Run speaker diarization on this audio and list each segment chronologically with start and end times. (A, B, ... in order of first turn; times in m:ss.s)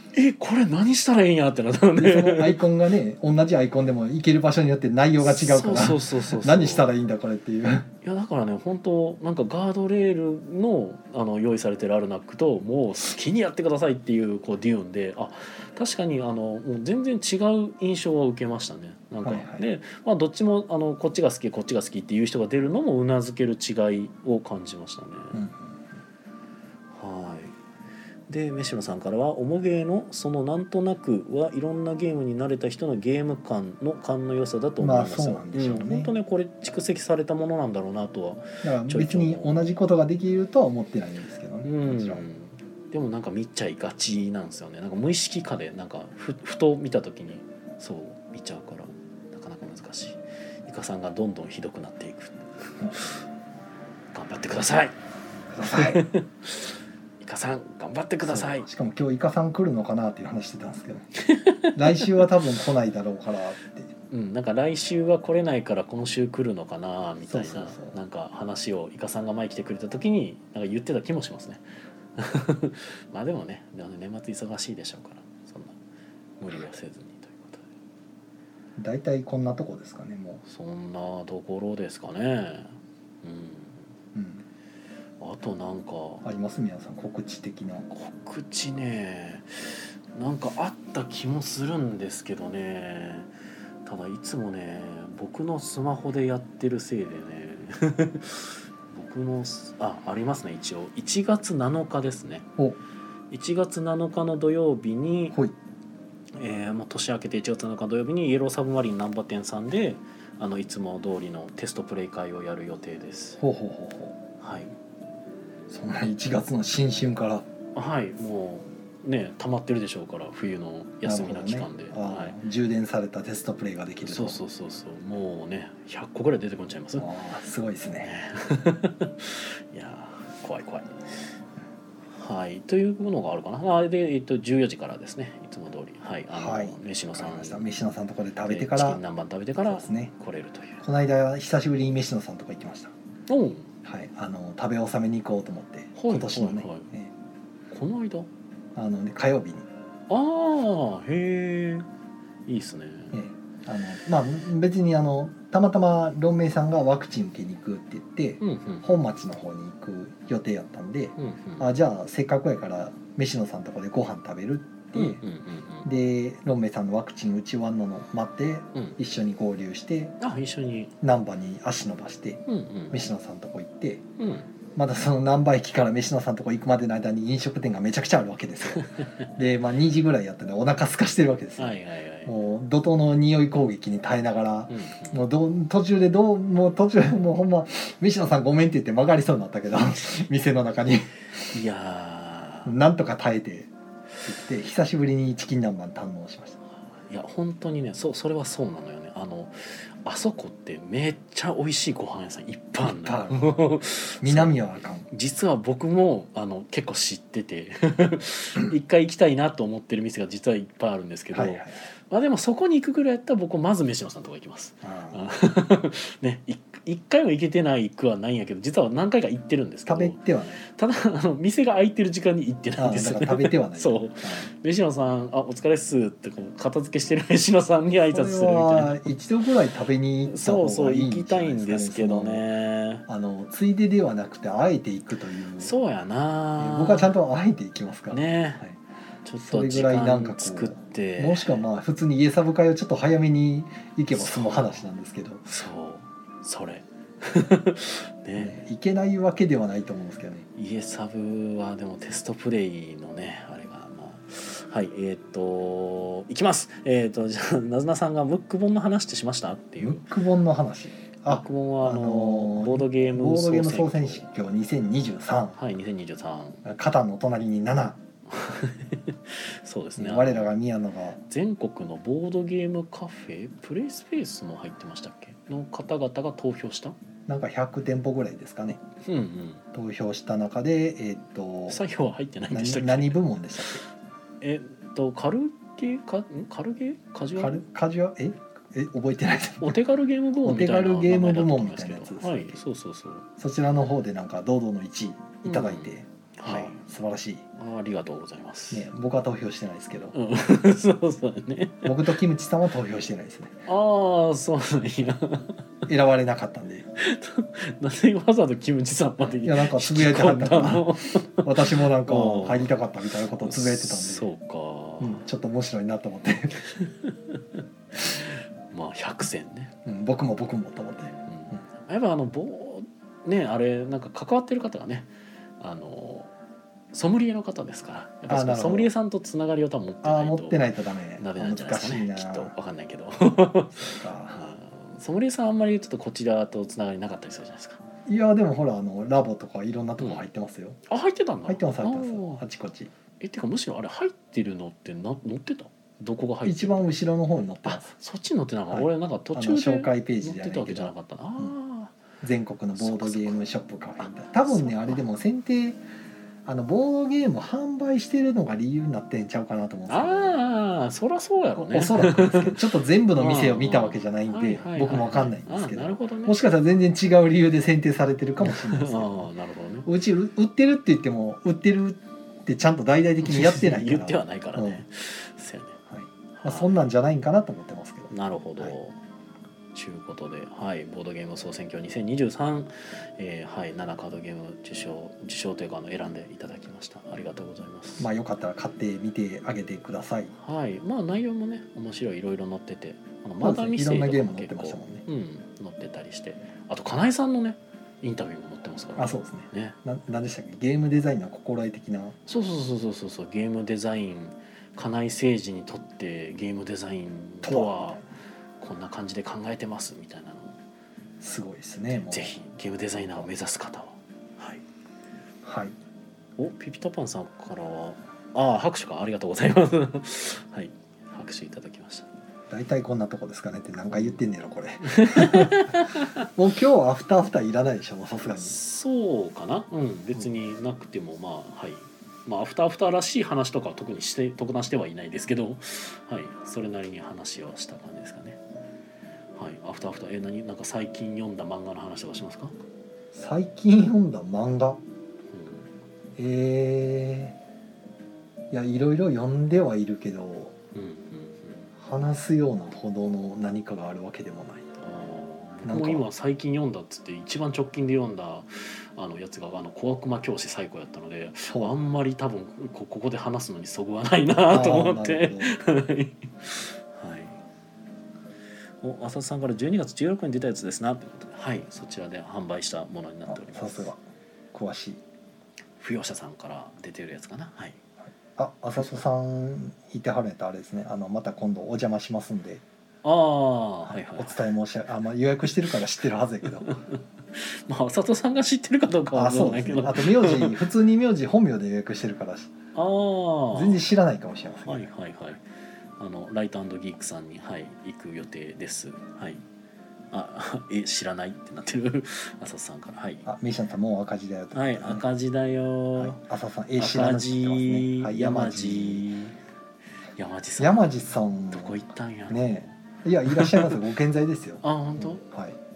0:00.1-0:02.6 A
0:02.0-0:07.9 B
0:05.2-0:06.9 A
0:08.0-0:25.4 A
0:19.2-0:19.6 B
0:25.3-0:25.8 B
0:26.9-0:27.5 A
0:28.3-0:39.6 A
0:34.8-0:36.1 B
0:38.6-0:42.2 B
0:41.6-0:53.2 A
0:54.1-0:54.9 A
0:55.5-0:56.1 B
0:55.7-0:56.7 A
0:57.2-0:58.7 A
0:58.2-1:01.1 B
1:01.2-1:02.2 A
1:01.7-1:03.9 B
1:04.1-1:11.6 A
1:07.2-1:08.0 B
1:12.2-1:15.8 A
1:16.4-1:17.7 A
1:18.8-1:20.4 B
1:20.4-1:23.8 A
1:24.1-1:24.4 B
1:25.2-1:26.2 A
1:26.2-1:27.9 B
1:27.9-1:33.3 A
1:33.8-1:42.5 A
1:43.3-1:45.4 A
1:46.4-1:53.4 A
1:53.4-1:54.2 B
1:54.4-1:54.7 A
1:55.7-1:57.4 B
1:57.7-2:02.4 A
2:01.0-2:04.4 B
2:04.1-2:07.1 A
2:07.0-2:08.1 B
2:08.0-2:11.0 A
2:12.1-2:17.7 A
2:16.3-2:19.0 B
2:18.4-2:20.8 A
2:19.6-2:20.1 B
2:20.8-2:22.9 B
2:23.3-2:23.7 A
2:23.8-2:27.1 B
2:26.0-2:26.9 A
2:27.7-2:28.3 A
2:28.7-2:29.6 B
2:30.1-2:31.9 A
2:32.5-2:33.2 A
2:33.1-2:45.2 B
2:38.4-2:38.9 A
2:41.2-2:41.8 A
2:44.9-2:45.9 A
2:45.8-2:50.2 B
2:50.2-2:50.9 A
2:51.0-2:54.0 B
2:52.5-2:53.1 A
2:54.2-2:54.5 A
2:54.7-3:11.1 B
2:58.7-2:59.1 A
3:01.6-3:02.3 A
3:04.7-3:05.3 A
3:11.5-3:12.7 A
3:12.6-3:13.7 B
3:14.2-3:16.6 B
3:17.0-3:49.1 A
3:22.8-3:23.6 B
3:24.2-3:25.1 B
3:31.3-3:31.7 B
3:34.8-3:35.2 B
3:39.9-3:40.6 B
3:42.8-3:44.5 B
3:48.1-3:52.4 B
3:50.2-3:53.0 A
3:53.1-3:55.7 B
3:55.6-3:57.2 A
3:56.6-3:58.8 B
3:58.1-3:58.6 A
3:59.2-4:01.6 A
3:59.4-4:05.4 B
4:04.1-4:04.8 A
4:05.4-4:08.6 A
4:08.4-4:10.4 B
4:10.5-4:20.0 A
4:19.8-4:25.6 B
4:21.3-4:24.2 A
4:25.6-4:26.6 A
4:26.6-4:28.0 B
4:28.3-4:30.5 A
4:30.0-4:31.2 B
4:31.3-4:37.0 A
4:37.3-4:38.8 B
4:39.0-4:39.6 A
4:39.7-4:41.8 B
4:41.7-4:43.2 A
4:42.5-4:43.8 B
4:44.4-4:47.6 A
4:47.4-4:49.8 B
4:49.6-4:53.2 A
4:50.4-4:52.6 B
4:53.4-4:57.4 B
4:55.4-4:56.8 A
4:57.6-4:58.9 A
4:58.7-5:00.1 B
5:00.1-5:01.9 A
5:01.8-5:03.6 B
5:03.7-5:05.6 A
5:05.9-5:06.9 B
5:07.0-5:12.8 A
5:09.4-5:14.3 B
5:13.4-5:15.2 A
5:15.0-5:16.6 B
5:16.7-5:19.7 A
5:19.8-5:21.6 B
5:21.3-5:26.3 A
5:26.9-5:30.6 A
5:28.3-5:28.9 B
5:30.0-5:32.5 B
5:31.2-5:37.8 A
5:33.7-5:34.4 B
5:38.0-5:40.8 B
5:40.0-5:40.2 A
5:40.9-5:42.4 A
5:41.4-5:42.9 B
5:43.2-5:46.9 A
5:46.4-5:47.9 B
5:47.6-5:51.9 A
5:48.7-5:51.5 B
5:52.2-5:55.8 B
5:52.8-5:53.4 A
5:54.0-5:55.0 A
5:56.4-6:00.4 B
5:59.9-6:06.4 A
6:01.6-6:09.3 B
6:08.4-6:09.9 A
6:09.8-6:14.8 B
6:13.2-6:15.8 A
6:15.9-6:18.7 B
6:16.3-6:16.8 A
6:18.1-6:19.0 A
6:19.7-6:28.1 A
6:28.0-6:30.3 B
6:30.4-6:39.8 A
6:33.4-6:35.0 B
6:39.0-6:42.2 B
6:42.3-6:48.0 A
6:47.4-6:48.0 B
6:48.6-6:50.6 A
6:51.2-6:52.4 B
6:51.9-6:54.6 A
6:55.4-6:55.7 B
6:56.4-7:02.1 A
7:02.5-7:08.6 B
7:03.9-7:04.2 A
7:04.8-7:06.3 A
7:08.3-7:18.4 A
7:19.4-7:22.5 A
7:23.1-7:24.8 B
7:25.3-7:25.6 A
7:26.2-7:27.4 B
7:28.5-7:30.5 B
7:30.7-7:31.7 A
7:31.8-7:34.7 B
7:34.8-7:47.4 A
7:35.6-7:36.0 B
7:41.5-7:41.7 B
7:44.5-7:45.6 B
7:48.8-7:53.9 A
7:53.3-7:54.0 B
7:54.5-7:55.0 B
7:55.8-7:57.8 A
7:58.4-8:02.6 B
8:03.0-8:04.4 A
8:03.8-8:06.7 B
8:06.6-8:10.6 A
8:09.1-8:12.5 B
8:12.7-8:13.8 A
8:13.5-8:14.9 B
8:14.6-8:15.4 A
8:16.0-8:19.4 A
8:20.1-8:23.3 A
8:23.2-8:25.0 B
8:24.5-8:26.2 A
8:26.0-8:29.0 B
8:26.8-8:29.4 A
8:30.2-8:32.7 A
8:30.6-8:35.6 B
8:33.3-8:33.8 A
8:34.6-8:35.2 A